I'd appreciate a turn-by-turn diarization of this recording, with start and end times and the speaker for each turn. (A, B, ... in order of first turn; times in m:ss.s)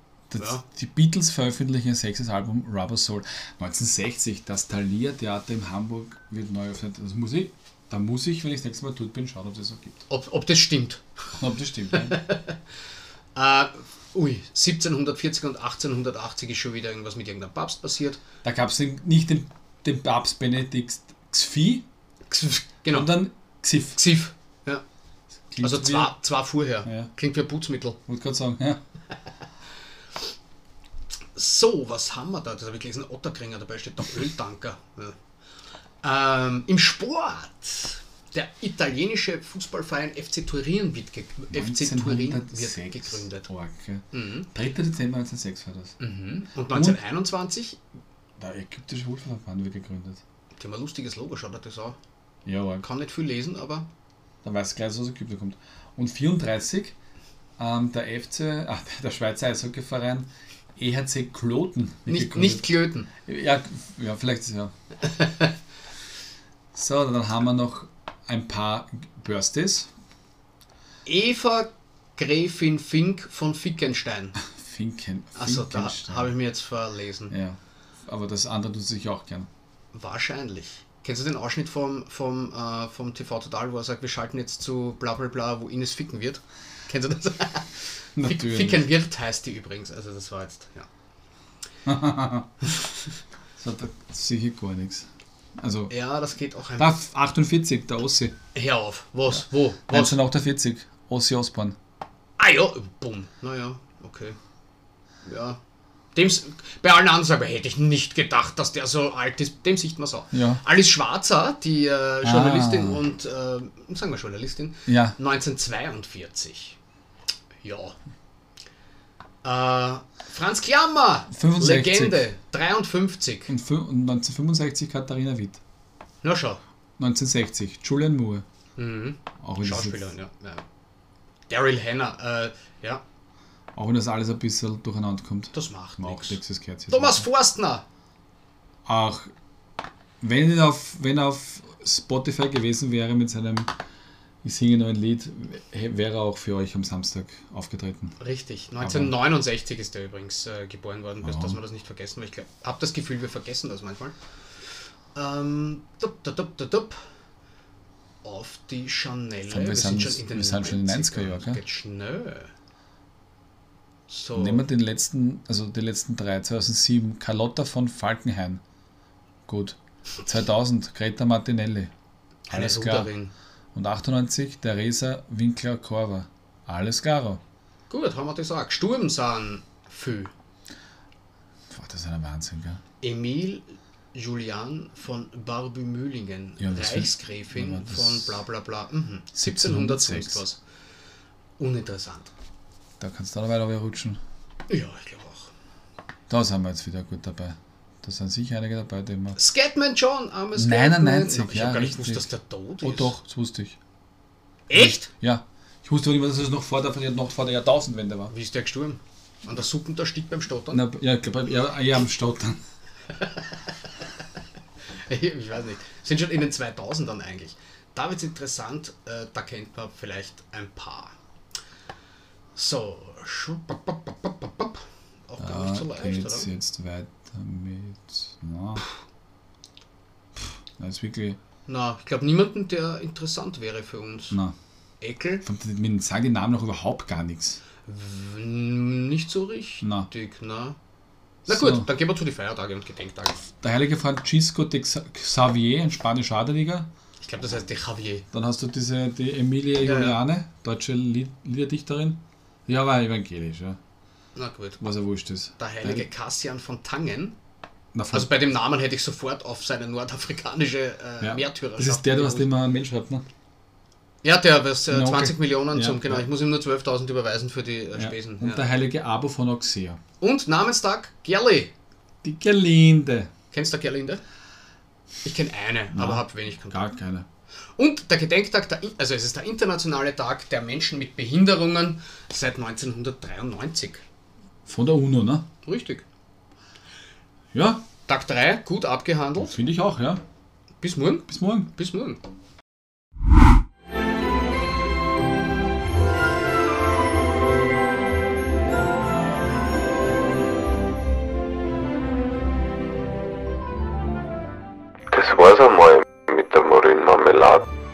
0:00.3-0:10.0 A
0:00.4-0:00.6 B
0:10.1-0:11.1 B
0:11.3-0:12.2 A
0:11.9-0:12.6 B
0:13.4-0:18.2 B
0:18.4-0:21.9 A
0:22.3-0:23.2 B
0:22.9-0:24.0 A
0:24.0-0:24.8 B
0:25.5-0:26.1 A
0:25.6-0:28.0 B
0:26.8-0:27.1 A
0:28.1-0:28.8 A
0:31.4-0:35.2 B
0:36.0-0:43.5 B
0:41.5-0:46.0 A
0:44.1-0:44.5 B
0:46.0-0:47.8 B
0:46.7-0:47.0 A
0:48.4-0:50.2 A
0:50.6-0:52.0 B
0:52.5-0:52.9 A
0:52.8-0:53.9 B
0:54.4-0:57.0 A
0:57.6-1:02.7 A
1:02.1-1:03.1 B
1:03.3-1:04.7 A
1:05.1-1:05.5 B
1:06.7-1:09.9 A
1:11.0-1:14.4 B
1:14.5-1:16.3 A
1:15.4-1:17.3 B
1:17.3-1:19.5 A
1:19.9-1:30.9 B
1:28.2-1:28.9 A
1:31.9-1:32.7 A
1:33.6-1:35.1 A
1:35.6-1:35.9 A
1:35.9-1:37.0 B
1:36.8-1:38.4 A
1:38.5-1:40.2 B
1:39.9-1:41.8 A
1:42.4-1:44.4 B
1:45.2-1:45.6 B
1:46.2-1:56.8 B
1:50.3-1:50.6 A
1:52.2-1:53.0 A
1:54.9-1:55.2 A
1:57.6-1:58.0 B
1:59.4-2:03.5 B
2:01.3-2:02.3 A
2:03.5-2:05.6 A
2:06.2-2:06.6 B
2:07.0-2:08.4 A
2:08.8-2:10.6 B
2:09.4-2:10.1 A
2:11.5-2:13.0 B
2:13.8-2:17.3 A
2:15.5-2:17.8 B
2:18.9-2:19.3 A
2:20.2-2:23.7 A
2:24.4-2:28.2 A
2:28.2-2:34.2 B
2:28.8-2:29.1 A
2:31.2-2:31.6 A
2:35.1-2:37.0 B
2:38.2-2:42.5 B
2:39.5-2:41.6 A
2:44.1-2:44.7 B
2:44.4-2:48.6 A
2:49.5-2:51.9 A
2:52.5-2:53.3 B
2:52.5-2:53.1 A
2:53.7-2:57.4 A
2:57.9-3:00.3 B
3:01.7-3:02.8 A
3:03.0-3:10.6 B
3:06.6-3:08.4 A
3:09.4-3:10.4 A
3:11.6-3:12.3 B
3:13.0-3:14.2 A
3:14.7-3:15.5 B
3:16.3-3:19.4 A
3:19.4-3:23.1 B
3:20.6-3:22.3 A
3:22.8-3:23.8 A
3:24.7-3:25.1 B
3:24.7-3:28.3 A
3:28.3-3:30.8 B
3:30.7-3:32.6 A
3:33.2-3:33.6 B
3:35.1-3:41.2 B
3:42.6-3:46.5 B
3:45.4-3:48.9 A
3:50.8-3:51.4 A
3:51.7-3:54.4 B
3:54.3-3:54.6 A
3:55.0-3:55.4 B
3:55.4-3:57.6 A
3:57.9-4:00.8 B
3:59.8-4:00.1 A
4:01.5-4:03.5 B
4:01.5-4:01.9 A
4:03.6-4:06.9 A
4:07.2-4:08.3 B
4:08.3-4:13.8 A
4:09.8-4:10.2 B
4:14.4-4:14.8 B
4:14.8-4:16.0 A
4:15.6-4:17.4 B
4:17.9-4:18.3 A
4:18.1-4:22.5 B
4:21.2-4:23.2 A
4:24.2-4:28.7 B
4:24.9-4:26.2 A
4:28.0-4:30.0 A
4:30.2-4:31.7 B
4:32.2-4:33.3 A
4:33.5-4:34.2 B
4:35.2-4:36.8 B
4:35.9-4:37.3 A
4:37.8-4:44.0 B
4:44.7-4:45.5 A
4:45.6-4:46.0 B
4:47.5-4:47.8 A
4:48.1-4:49.6 B
4:49.4-4:50.2 A
4:50.8-4:52.2 B
4:51.3-4:51.7 A
5:05.1-5:07.6 C